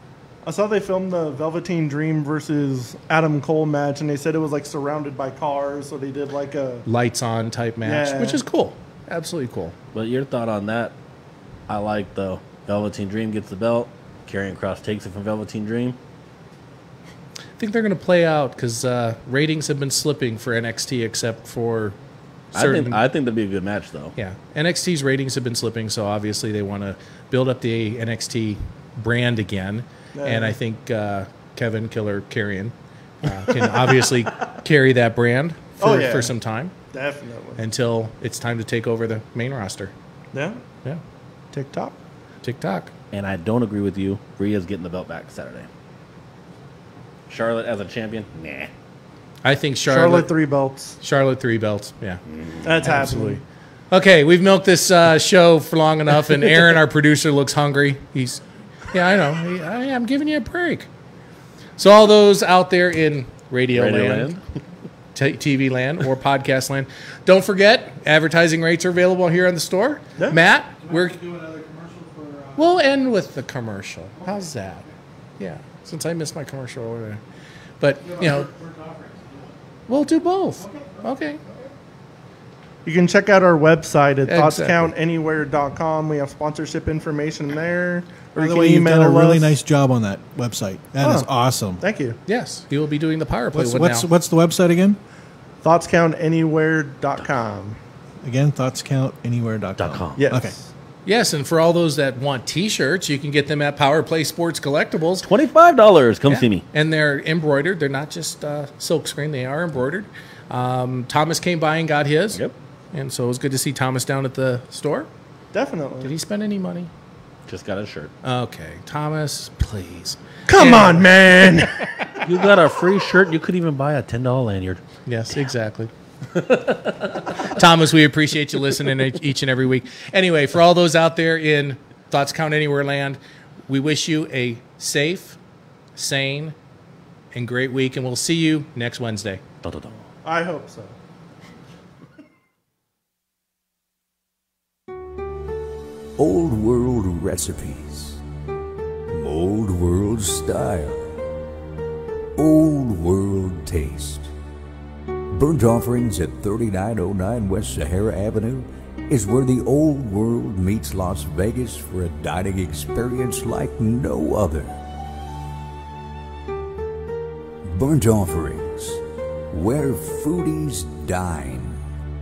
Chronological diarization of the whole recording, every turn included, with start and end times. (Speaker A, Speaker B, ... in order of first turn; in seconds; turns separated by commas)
Speaker A: 0.4-6.8, Speaker B: 6.8-9.7, Speaker A: 7.8-8.4, Speaker C: 9.9-10.9, Speaker C: 11.7-16.0, Speaker B: 17.6-21.9, Speaker B: 22.5-23.0, Speaker C: 22.5-24.1, Speaker B: 24.1-36.7, Speaker A: 30.1-30.5, Speaker A: 35.8-36.3, Speaker A: 36.9-37.6, Speaker B: 37.6-39.9, Speaker A: 40.3-40.6, Speaker A: 41.5-42.0, Speaker B: 42.4-42.9, Speaker C: 43.1-45.7, Speaker C: 47.3-48.7, Speaker B: 49.4-50.3, Speaker A: 49.9-51.0, Speaker B: 51.0-52.2, Speaker A: 52.6-53.4, Speaker B: 52.8-60.9, Speaker B: 61.8-64.3, Speaker C: 63.7-64.4, Speaker B: 65.1-71.2, Speaker D: 70.8-72.8, Speaker B: 72.5-74.8, Speaker D: 74.2-74.9, Speaker B: 75.4-77.2, Speaker B: 77.8-78.5, Speaker D: 78.0-79.6, Speaker B: 79.9-81.4, Speaker D: 80.5-81.7, Speaker A: 82.8-89.6, Speaker B: 84.3-84.9, Speaker D: 88.3-91.8, Speaker A: 91.0-91.3, Speaker A: 91.8-92.2, Speaker B: 92.3-94.1, Speaker D: 93.5-95.0, Speaker A: 95.6-97.8, Speaker D: 98.2-100.5, Speaker C: 99.8-100.2, Speaker A: 100.2-100.7, Speaker B: 101.0-105.2, Speaker C: 105.2-106.6, Speaker B: 106.3-112.4, Speaker B: 112.9-115.1, Speaker A: 115.5-116.1, Speaker B: 116.0-116.9, Speaker C: 117.5-118.1, Speaker B: 118.2-121.8, Speaker A: 120.5-121.9, Speaker C: 122.2-124.8, Speaker B: 125.0-125.9, Speaker C: 126.3-127.1, Speaker B: 127.4-135.4, Speaker B: 135.9-136.5, Speaker B: 137.3-139.4, Speaker C: 139.6-140.0, Speaker A: 140.2-140.9, Speaker E: 146.2-148.2, Speaker E: 149.1-151.2, Speaker E: 152.3-154.3, Speaker E: 155.3-164.8, Speaker E: 167.7-171.8